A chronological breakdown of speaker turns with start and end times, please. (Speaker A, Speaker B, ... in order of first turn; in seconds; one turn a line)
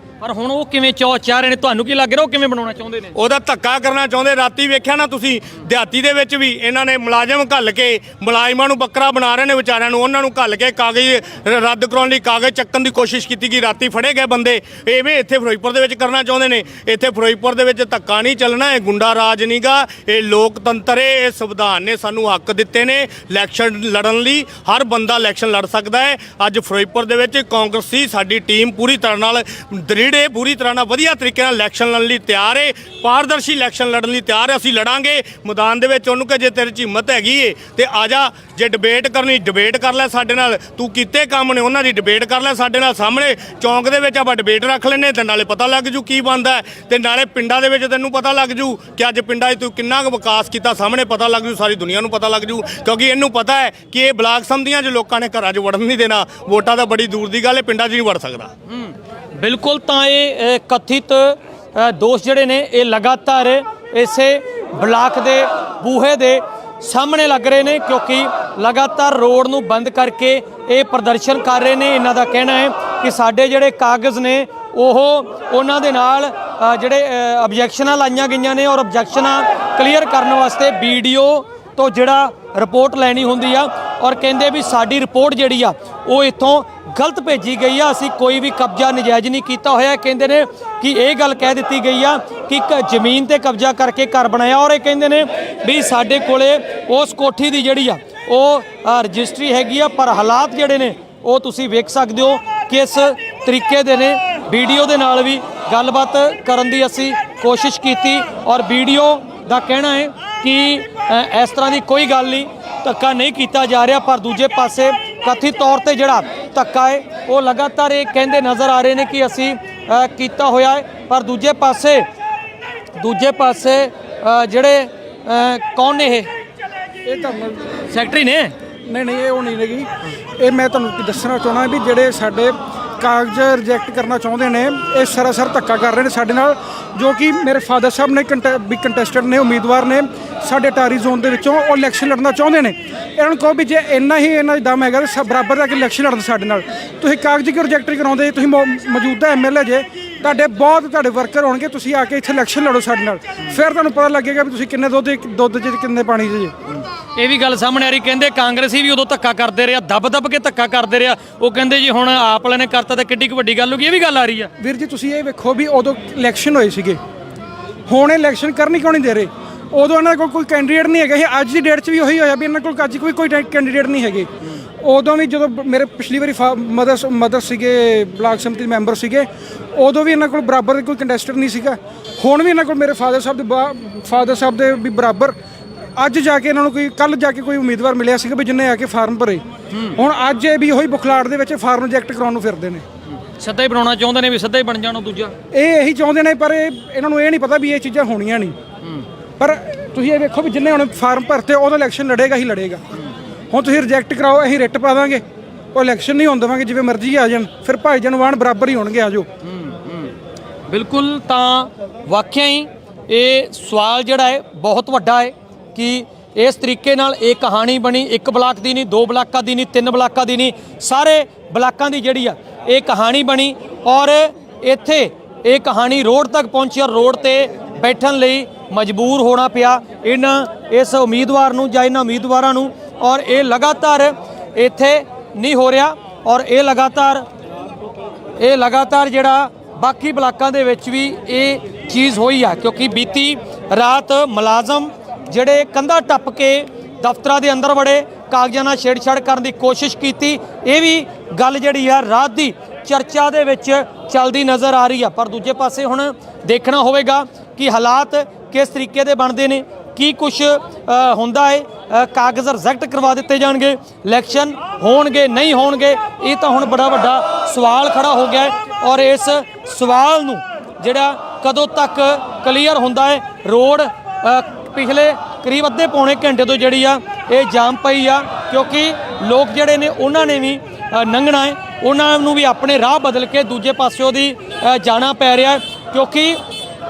Speaker A: 0.2-3.1
Speaker B: 3.1-58.5
Speaker A: 58.7-122.1
Speaker A: 123.0-126.3
Speaker C: 127.1-127.7
Speaker A: 127.9-128.6
Speaker C: 128.9-156.5
Speaker A: 157.2-164.5
Speaker C: 164.6-167.0
Speaker C: 167.9-174.3
Speaker C: 174.8-185.4
Speaker C: 186.0-189.4
Speaker A: 189.7-190.0
Speaker C: 190.0-192.8
Speaker A: 193.4-195.3
Speaker C: 195.5-198.6
Speaker C: 199.4-202.8
Speaker C: 203.5-205.2
Speaker C: 205.7-209.3
Speaker A: 209.4-210.1
Speaker A: 210.7-237.3
Speaker A: 238.4-286.4